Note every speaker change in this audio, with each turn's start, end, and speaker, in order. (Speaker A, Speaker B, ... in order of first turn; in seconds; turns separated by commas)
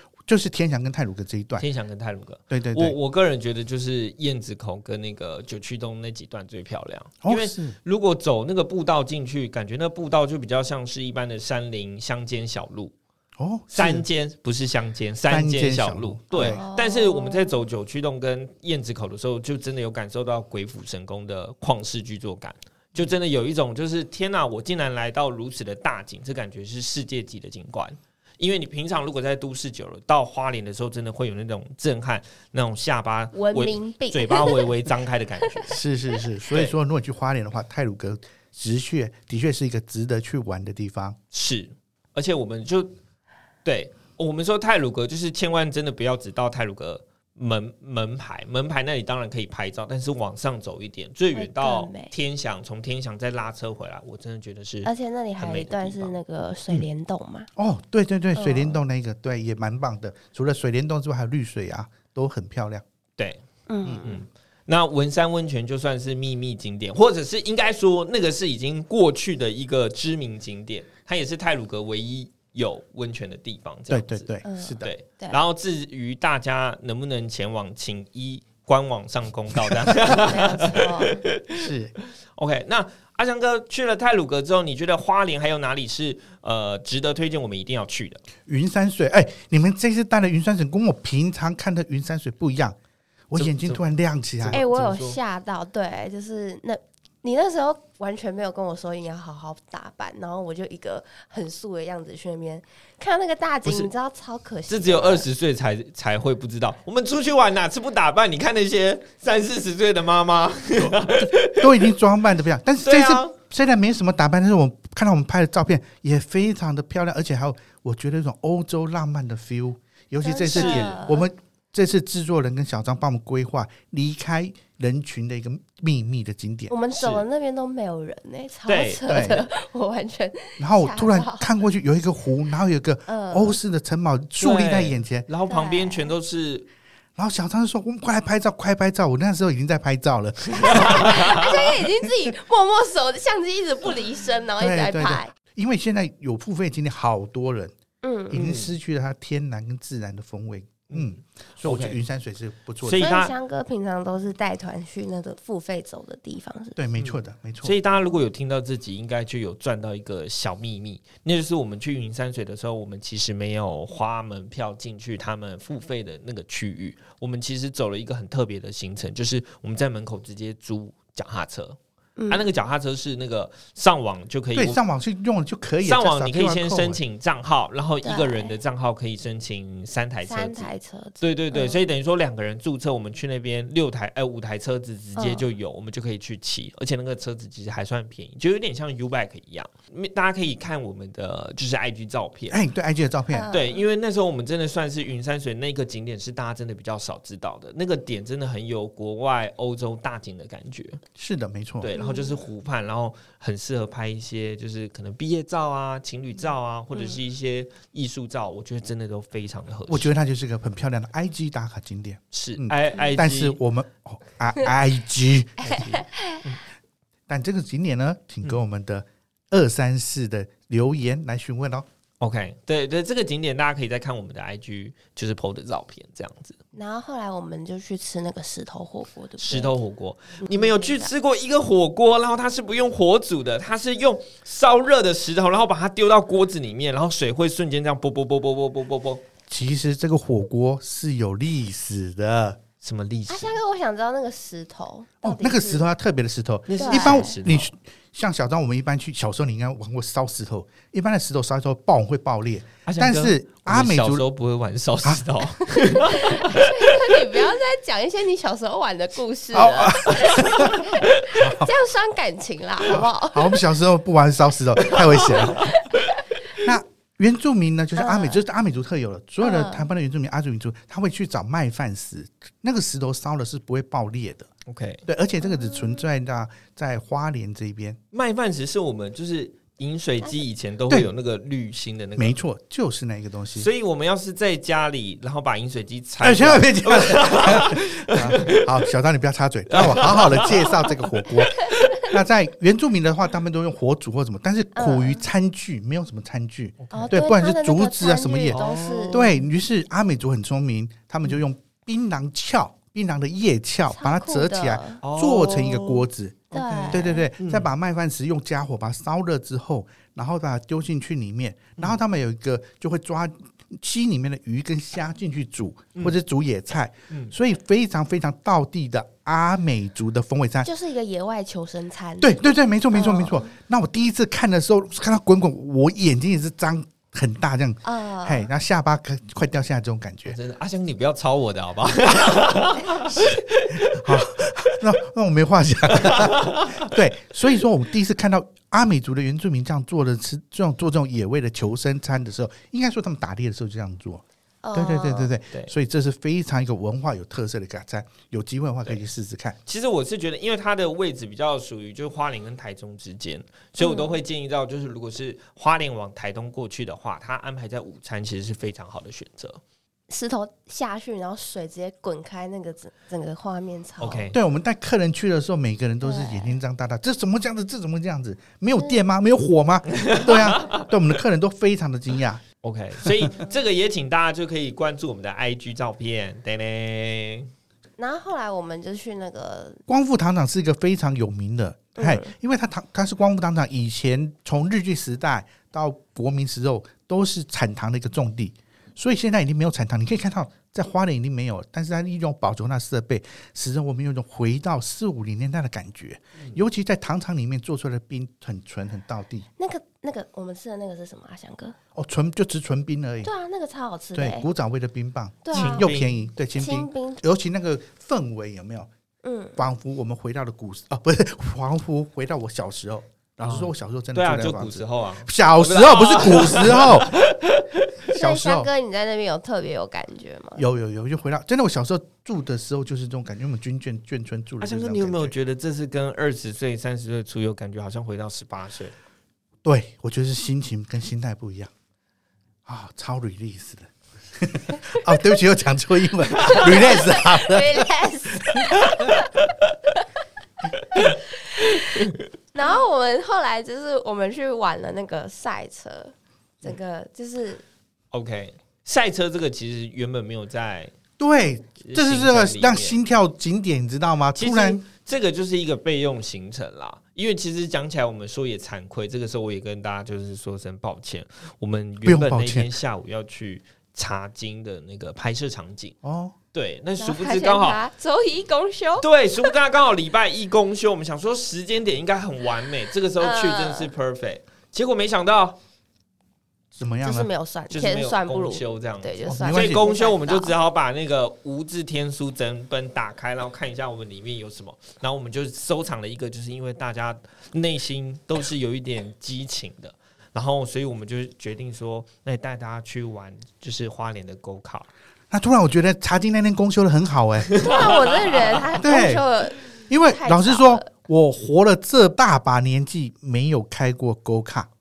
Speaker A: 0.3-1.7, Speaker B: 1.6-12.9, Speaker A: 2.5-3.0, Speaker A: 7.2-7.8, Speaker A: 13.4-14.1, Speaker B: 13.7-35.8, Speaker A: 15.3-16.6, Speaker C: 16.3-17.6, Speaker C: 33.3-34.7, Speaker A: 35.7-41.2, Speaker B: 41.3-42.9, Speaker B: 43.6-56.2, Speaker C: 51.3-52.1, Speaker C: 54.9-57.5, Speaker A: 57.6-62.8, Speaker C: 58.4-58.8, Speaker C: 63.7-64.2, Speaker A: 63.9-64.1, Speaker B: 64.0-74.3, Speaker A: 73.9-74.9, Speaker C: 74.4-75.4, Speaker B: 74.8-81.7, Speaker C: 80.1-81.2, Speaker A: 81.6-81.9, Speaker B: 82.4-88.2, Speaker A: 88.5-92.8, Speaker A: 93.3-94.6, Speaker B: 93.4-93.8, Speaker B: 94.4-95.2, Speaker C: 94.5-105.3, Speaker B: 104.7-111.9, Speaker A: 110.8-126.7, Speaker B: 112.8-113.3, Speaker C: 120.2-121.3, Speaker B: 120.5-121.0, Speaker C: 126.7-131.5, Speaker B: 127.0-127.2, Speaker B: 128.7-129.2, Speaker A: 129.1-129.5, Speaker A: 130.6-135.3, Speaker C: 133.1-133.6, Speaker B: 134.4-136.7, Speaker C: 135.5-136.1, Speaker A: 137.2-142.1, Speaker C: 140.6-145.3, Speaker B: 140.6-141.5, Speaker A: 144.6-147.7, Speaker C: 148.0-148.4, Speaker A: 148.3-153.1, Speaker B: 148.3-148.7, Speaker B: 150.9-152.0, Speaker B: 152.8-153.3, Speaker C: 153.0-156.8, Speaker A: 156.8-157.8, Speaker B: 157.0-171.8, Speaker C: 172.2-172.5, Speaker B: 172.3-174.8, Speaker A: 174.5-177.0, Speaker B: 175.8-192.6, Speaker C: 178.0-178.5, Speaker C: 180.2-181.8, Speaker C: 185.2-185.5, Speaker A: 192.5-193.5, Speaker C: 193.3-193.8, Speaker B: 193.5-201.0, Speaker A: 201.2-201.9, Speaker B: 201.8-210.2, Speaker C: 201.9-202.4, Speaker C: 206.9-207.2, Speaker A: 209.9-216.0, Speaker B: 212.3-213.6, Speaker C: 215.6-216.5, Speaker B: 215.6-216.6, Speaker A: 217.3-221.9, Speaker B: 222.2-226.6, Speaker C: 226.7-229.7, Speaker B: 229.4-239.2, Speaker C: 230.4-231.1, Speaker A: 239.5-242.6, Speaker B: 242.8-243.6, Speaker C: 243.3-245.9, Speaker A: 245.2-254.2, Speaker B: 246.7-247.7, Speaker C: 246.8-247.3, Speaker B: 252.8-257.2, Speaker C: 255.9-263.6, Speaker A: 259.5-261.7, Speaker B: 260.3-261.0, Speaker A: 262.9-265.8, Speaker B: 264.9-265.5, Speaker C: 265.3-266.2, Speaker A: 266.6-274.5, Speaker C: 268.0-268.4, Speaker C: 269.4-269.9, Speaker B: 274.7-275.0, Speaker A: 275.1-278.0, Speaker C: 275.4-276.1, Speaker B: 278.1-282.4, Speaker A: 282.2-283.7, Speaker B: 283.6-288.9, Speaker A: 286.2-298.6, Speaker B: 289.7-291.9, Speaker C: 294.8-295.2, Speaker B: 296.8-297.2, Speaker C: 296.9-299.3, Speaker B: 298.5-299.4, Speaker A: 299.1-320.7, Speaker C: 303.9-305.0, Speaker B: 305.0-307.7, Speaker C: 306.5-307.3, Speaker C: 320.6-322.4, Speaker A: 322.2-330.4, Speaker C: 322.9-323.5, Speaker C: 327.8-328.5, Speaker B: 330.3-334.3, Speaker A: 333.9-344.2, Speaker B: 335.9-336.9, Speaker C: 344.6-345.4, Speaker A: 344.7-349.6, Speaker B: 349.7-359.6, Speaker C: 353.8-354.2, Speaker C: 360.1-364.3, Speaker B: 364.0-364.4, Speaker A: 364.3-372.4, Speaker C: 366.0-366.6, Speaker C: 368.8-369.0, Speaker B: 369.9-370.9, Speaker B: 372.6-377.5, Speaker A: 373.0-373.3, Speaker C: 378.0-379.8, Speaker A: 379.9-399.5, Speaker C: 382.0-382.3, Speaker C: 399.6-401.8, Speaker A: 401.9-403.3, Speaker C: 403.2-404.5, Speaker A: 404.1-408.9, Speaker C: 405.4-405.9, Speaker B: 405.5-406.2, Speaker C: 406.6-407.2, Speaker C: 409.2-409.6, Speaker A: 409.6-417.1, Speaker B: 413.4-417.9, Speaker A: 418.1-418.7, Speaker C: 418.1-420.6, Speaker A: 420.6-425.4, Speaker B: 424.6-428.9, Speaker A: 429.6-431.7, Speaker A: 432.7-437.9, Speaker C: 436.4-439.3, Speaker C: 441.0-447.6, Speaker B: 448.1-450.9, Speaker A: 451.2-454.8, Speaker B: 451.8-453.0, Speaker B: 454.4-465.9, Speaker A: 462.0-462.7, Speaker A: 466.0-466.4, Speaker B: 466.5-467.8, Speaker C: 467.0-469.5, Speaker B: 469.0-475.6, Speaker C: 473.2-473.9, Speaker A: 476.7-477.3, Speaker C: 477.0-480.5, Speaker B: 477.7-494.9, Speaker A: 479.3-479.9, Speaker A: 495.3-497.5, Speaker B: 497.5-498.6, Speaker C: 497.6-500.9, Speaker A: 498.8-499.2, Speaker A: 499.9-504.7